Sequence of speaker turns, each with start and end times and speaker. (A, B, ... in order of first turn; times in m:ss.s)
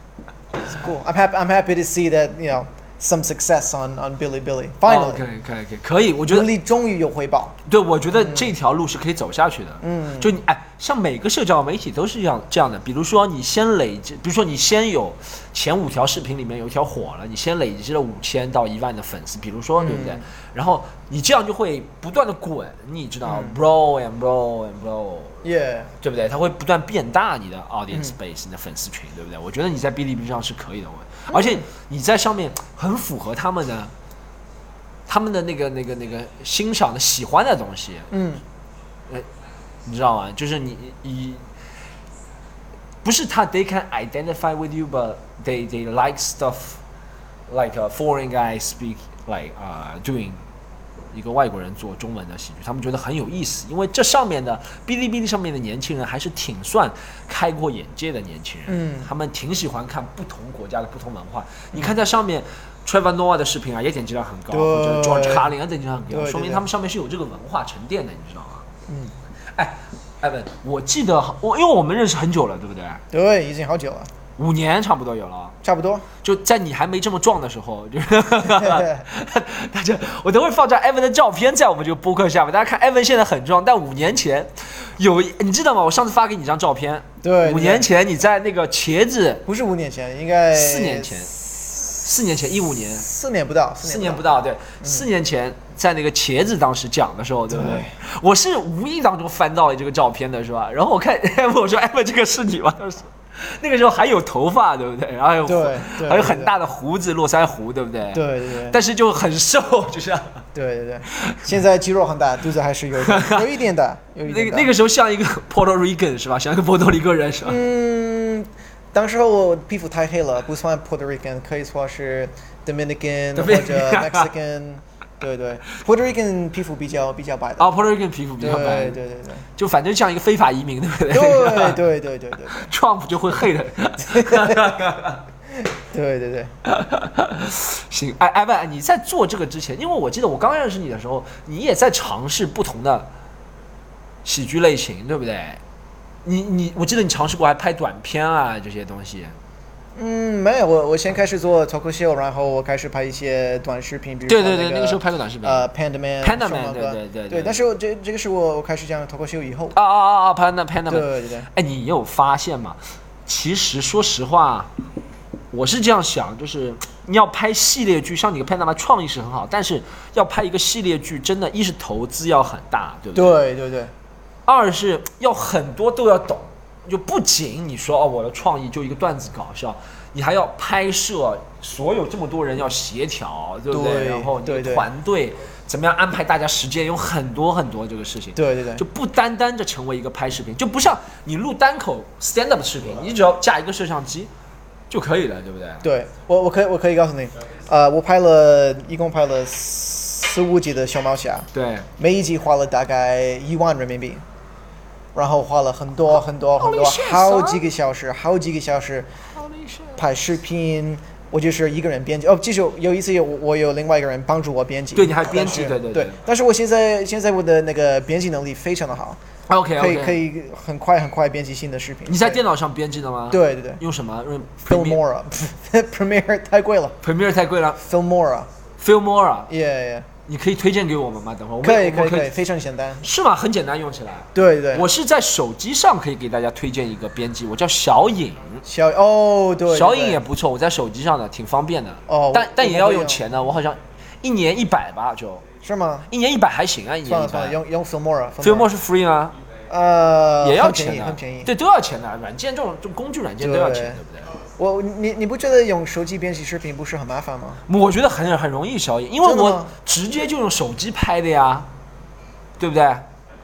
0:00.6-0:05.2 A
0:04.8-0:06.5 B
0:06.3-0:07.6 A
0:07.7-0:25.4 B
0:08.1-0:08.5 A
0:09.8-0:10.3 A
0:19.8-0:20.2 A
0:23.2-0:23.6 A
0:25.4-0:25.9 A
0:26.0-0:33.9 B
0:31.3-0:31.6 A
0:35.1-0:38.1 B
0:38.1-0:38.4 A
0:39.8-0:41.4 B
0:43.0-0:46.8 B
0:47.5-0:50.4 B
0:51.1-1:08.6 B
0:58.7-0:59.1 A
1:04.5-1:05.5 A
1:06.1-1:06.6 A
1:08.9-1:09.1 A
1:09.5-1:13.0 B
1:13.1-1:14.1 A
1:14.4-1:15.6 B
1:15.6-1:16.1 A
1:16.2-1:29.4 B
1:18.5-1:19.0 A
1:27.2-1:27.9 A
1:29.4-1:32.0 A
1:30.5-1:31.3 B
1:32.0-1:33.0 B
1:33.0-1:35.0 A
1:33.8-1:50.4 B
1:37.5-1:37.9 A
1:45.4-1:46.5 A
1:48.1-1:48.8 A
1:50.5-1:54.7 A
1:51.1-1:51.4 B
1:53.0-1:53.5 B
1:54.2-1:57.6 B
1:57.4-2:07.7 A
2:03.3-2:04.3 B
2:07.6-2:09.0 B
2:08.4-2:09.4 A
2:09.6-2:11.8 B
2:11.1-2:12.7 A
2:12.6-2:15.2 B
2:14.1-2:14.9 A
2:15.6-2:16.5 A
2:16.6-2:23.1 B
2:24.2-2:25.6 B
2:26.2-2:29.3 B
2:30.0-2:39.7 A
2:34.3-2:35.7 B
2:36.2-2:37.6 B
2:39.7-2:44.7 B
2:40.9-2:41.5 A
2:45.5-2:53.4 B
2:53.1-2:53.9 A
2:54.4-3:14.3 B
3:03.7-3:04.9 A
3:08.4-3:08.8 A
3:14.9-3:15.8 B
3:15.8-3:24.2 A
3:21.5-3:21.9 B
3:25.1-3:29.1 A
3:26.6-3:27.6 B
3:29.3-3:30.0 B
3:30.0-3:39.2 A
3:34.9-3:36.2 B
3:39.5-3:40.2 B
3:39.8-3:42.4 A
3:42.1-3:45.0 B
3:43.3-3:43.8 A
3:44.7-3:47.0 A
3:47.0-3:47.8 B
3:47.8-3:48.5 A
3:48.8-3:49.5 B
3:49.5-3:50.1 A
3:50.3-3:52.3 B
3:51.6-3:53.0 A
3:53.0-3:58.6 B
3:54.3-3:54.9 A
3:58.6-4:00.2 A
3:59.7-4:05.4 B
4:02.1-4:03.3 A
4:05.6-4:06.1 A
4:06.1-4:07.6 B
4:07.0-4:08.7 A
4:08.4-4:09.3 B
4:09.7-4:11.5 A
4:10.4-4:14.3 B
4:13.4-4:14.0 A
4:14.6-4:17.6 A
4:17.7-4:21.7 B
4:19.2-4:19.7 A
4:22.6-4:23.0 B